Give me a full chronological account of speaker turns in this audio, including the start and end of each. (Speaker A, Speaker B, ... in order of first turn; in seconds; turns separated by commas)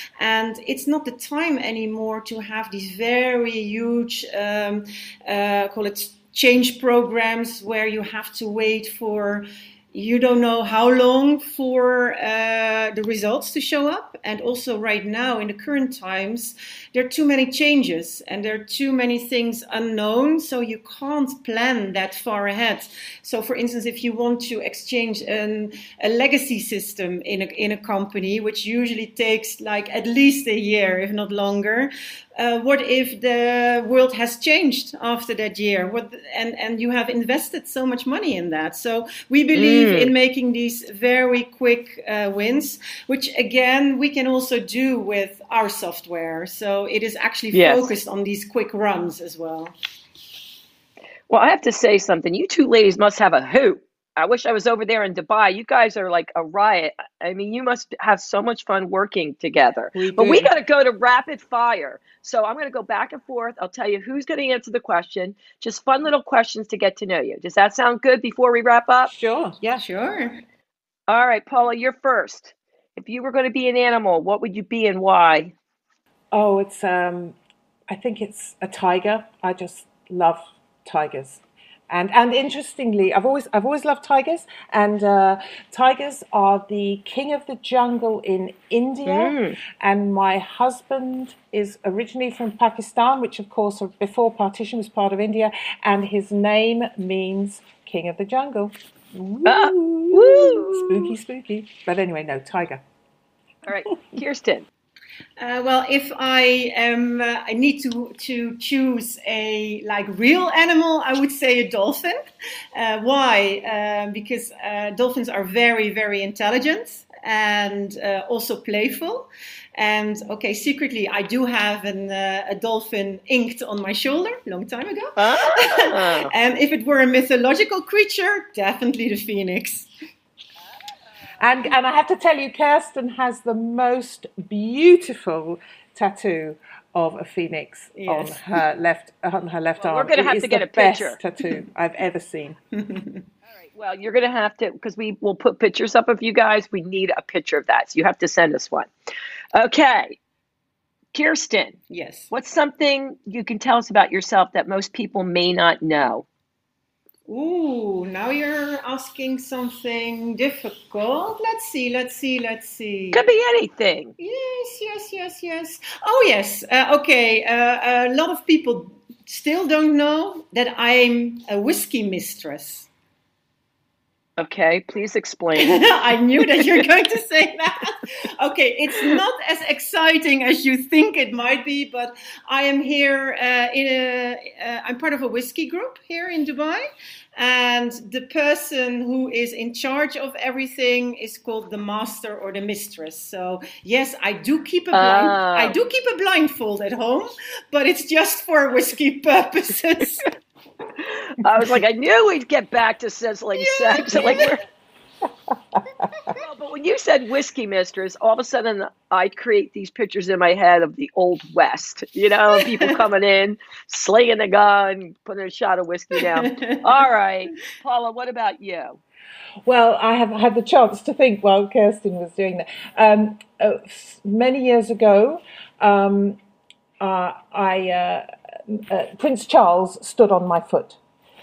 Speaker A: 0.2-49.8, Speaker B: 39.5-40.1, Speaker B: 47.5-47.9, Speaker B: 51.3-69.1, Speaker C: 59.9-60.5, Speaker C: 69.1-69.8, Speaker A: 69.8-70.4, Speaker B: 71.1-75.5, Speaker C: 76.3-77.3, Speaker C: 77.9-102.8, Speaker B: 89.0-89.5, Speaker B: 99.4-101.0, Speaker B: 103.6-104.7, Speaker A: 105.4-112.2, Speaker A: 112.7-129.9, Speaker B: 125.2-126.3, Speaker C: 131.4-142.6, Speaker A: 137.9-138.4, Speaker B: 139.8-141.2, Speaker A: 142.7-143.2, Speaker B: 143.6-148.9, Speaker B: 149.5-150.2, Speaker B: 151.1-151.8, Speaker A: 151.9-152.3, Speaker B: 152.3-156.2, Speaker A: 157.3-163.2, Speaker B: 163.1-164.1, Speaker A: 164.2-172.9, Speaker B: 174.4-175.8, Speaker A: 175.6-186.8, Speaker A: 187.3-200.3, Speaker B: 194.9-195.7, Speaker B: 201.0-204.6, Speaker A: 203.6-204.5, Speaker B: 206.3-219.0, Speaker A: 212.5-213.0, Speaker A: 216.1-217.0, Speaker C: 219.6-226.4, Speaker C: 227.0-231.0